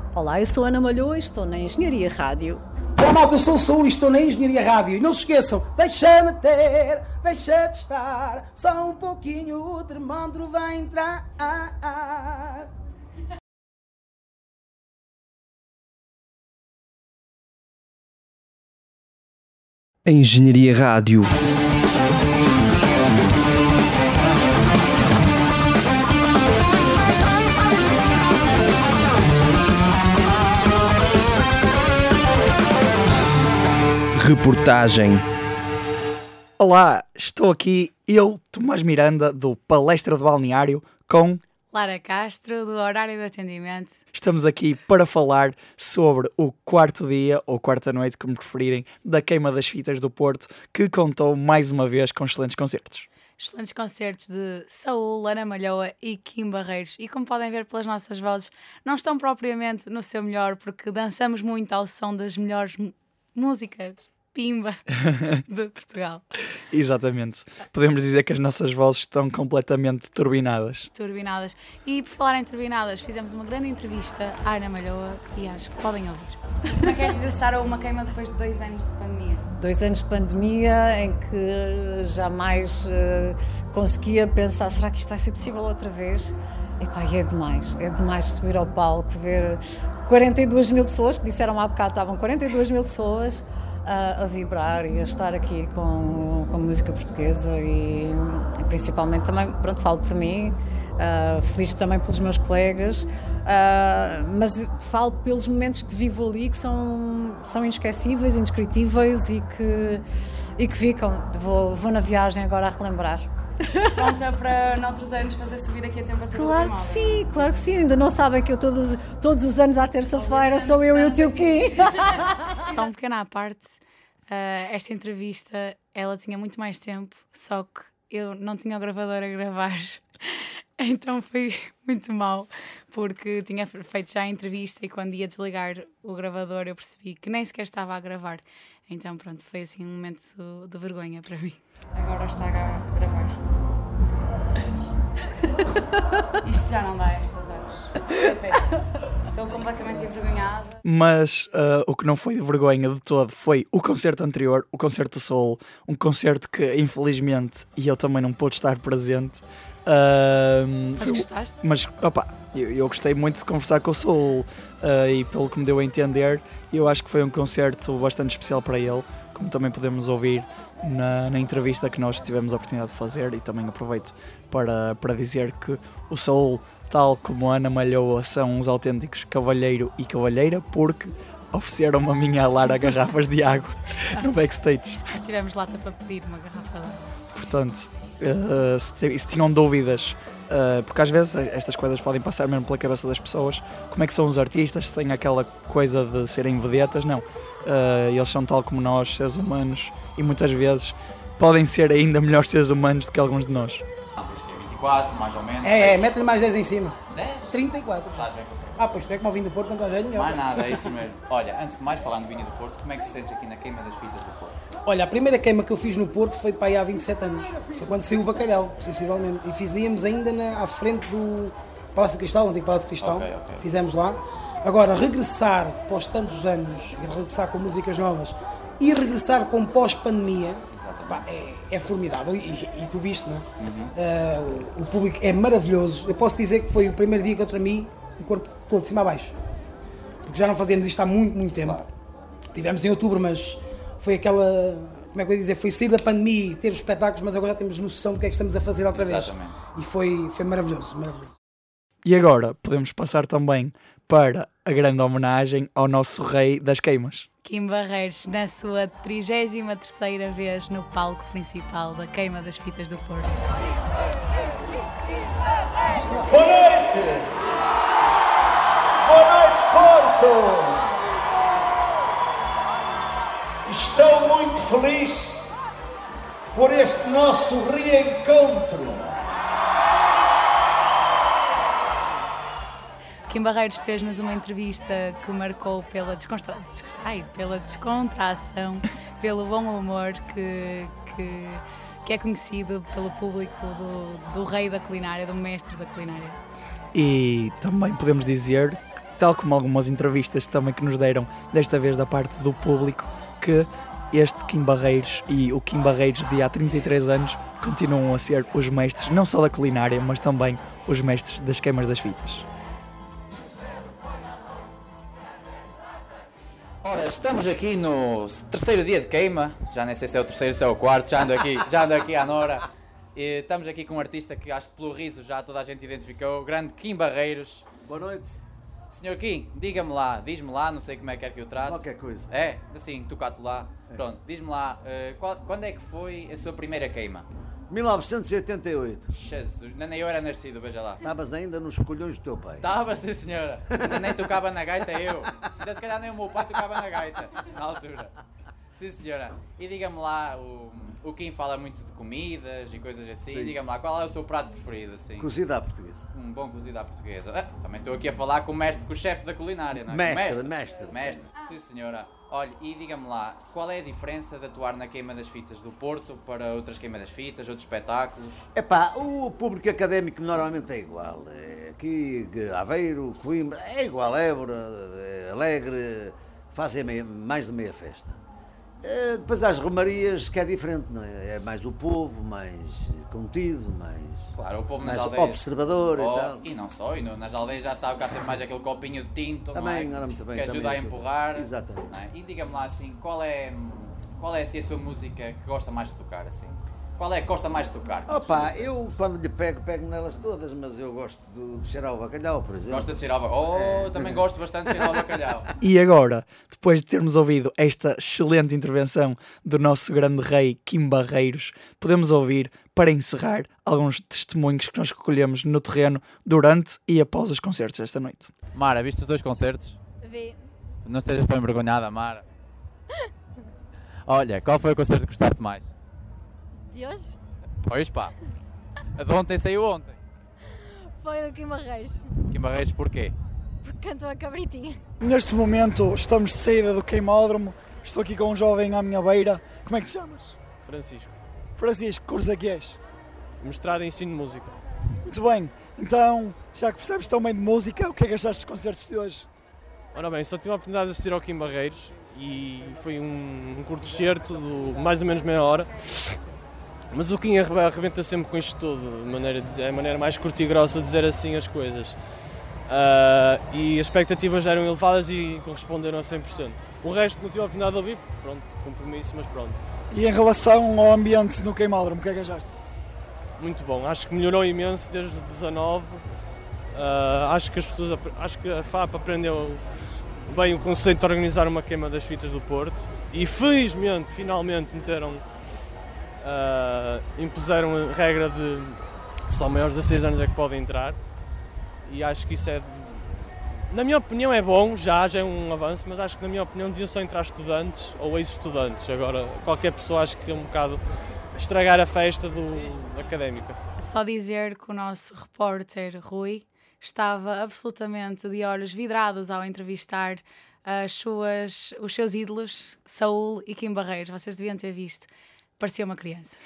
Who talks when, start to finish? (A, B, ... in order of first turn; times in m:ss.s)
0:00.1-0:02.6 A
0:03.0-0:12.7 B
0:20.1-0:21.2 C
0:34.2-0:35.2 C
0:36.6-0:41.4 D
0:41.7-0:44.0 E
0:44.1-0:53.1 D
0:53.4-1:04.9 E
1:05.4-1:06.2 E
1:06.7-1:10.9 D
1:10.9-1:19.5 E
1:19.5-1:50.0 A
1:50.6-1:54.1 A
1:54.0-1:57.6 E
1:56.3-2:01.9 A
2:00.1-2:01.7 E
2:02.6-2:23.4 E
2:26.4-2:28.7 E
2:29.3-2:30.8 E
2:30.8-3:05.0 D
2:41.0-2:41.6 E
3:05.1-3:07.0 E
3:07.4-3:23.8 D
3:24.2-3:26.1 F
3:25.6-3:27.0 B
3:27.1-3:27.6 F
3:27.5-3:30.8 B
3:28.1-3:28.8 F
3:30.1-3:34.6 F
3:34.9-3:53.4 B
3:43.0-3:43.6 F
3:50.7-3:51.2 F
3:53.6-3:53.9 F
3:54.0-3:59.3 B
4:00.2-4:01.8 B
4:01.6-4:01.9 F
4:02.5-4:11.3 B
4:08.9-4:09.5 F
4:12.0-4:17.3 D
4:17.4-4:23.5 E
4:26.2-4:27.3 G
4:29.0-4:30.8 G
4:33.7-4:35.4 G
4:36.5-4:39.2 G
4:43.3-4:56.4 E
4:56.9-5:12.5 D
5:16.8-5:27.6 F
5:27.8-5:28.4 G
5:28.9-5:37.3 F
5:31.6-5:32.3 G
5:37.7-5:39.1 G
5:39.1-5:41.0 F
5:41.0-5:42.7 G
5:42.6-5:48.1 F
5:48.7-5:55.3 F
5:53.2-5:53.6 G
5:55.2-5:56.1 G
5:56.1-6:08.5 F
5:59.9-6:01.3 G
6:08.6-6:18.2 G
6:18.8-6:26.4 G
6:24.4-6:38.7 F
6:29.5-6:32.0 G
6:38.1-6:42.9 G
6:42.7-6:45.5 F
6:43.5-6:44.2 G
6:45.6-6:58.3 D
6:58.5-6:59.8 F
7:00.0-7:00.4 H
7:00.8-7:02.2 F
7:04.1-7:05.7 F
7:06.7-7:07.2 H
7:07.6-7:08.1 F
7:09.0-7:10.0 F
7:10.6-7:12.2 H
7:12.3-7:13.2 F
7:13.6-7:14.8 H
7:15.0-7:20.4 D
7:20.6-7:21.2 I
7:21.6-7:22.8 D
7:23.4-7:24.6 I
7:25.0-7:29.3 D
7:30.0-7:36.2 I
7:36.9-7:42.0 I
7:42.7-7:49.6 I
7:49.9-7:52.6 D
7:53.4-7:56.0 I
7:56.7-7:59.6 I
8:00.3-8:05.2 I
8:06.2-8:11.0 I
8:11.8-8:20.8 I
8:21.4-8:23.6 I
8:23.8-8:36.4 E